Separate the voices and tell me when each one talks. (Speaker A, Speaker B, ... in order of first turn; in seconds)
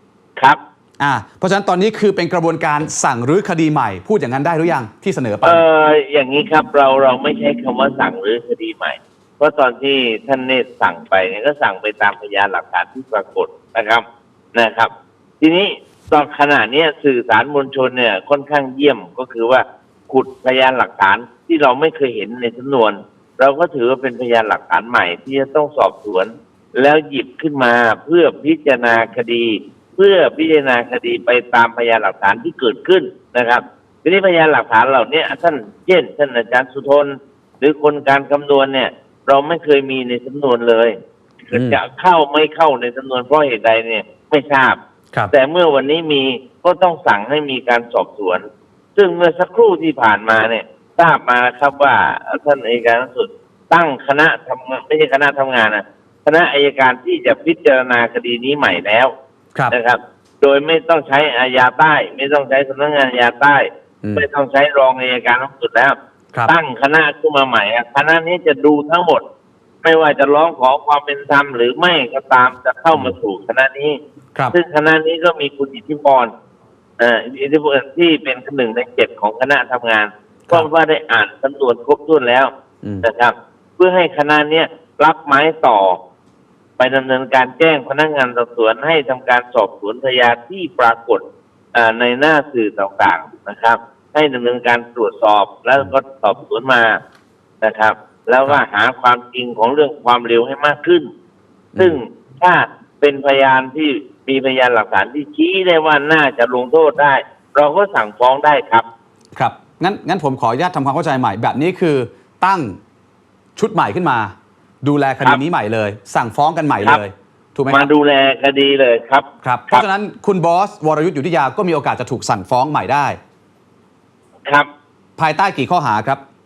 Speaker A: 1.0-5.6, 41.5-41.8, 109.4-112.8, 113.6-117.9, 119.4-123.2, 125.2-126.2
Speaker B: 5.4-14.0, 14.6-41.0, 41.5-44.8, 45.3-48.5, 49.0-59.1, 59.7-66.0, 66.5-69.2, 69.8-74.0, 74.5-76.3, 77.0-82.5, 83.0-86.0, 86.8-91.2, 91.7-97.0, 97.6-101.1, 101.8-108.8, 117.7-119.9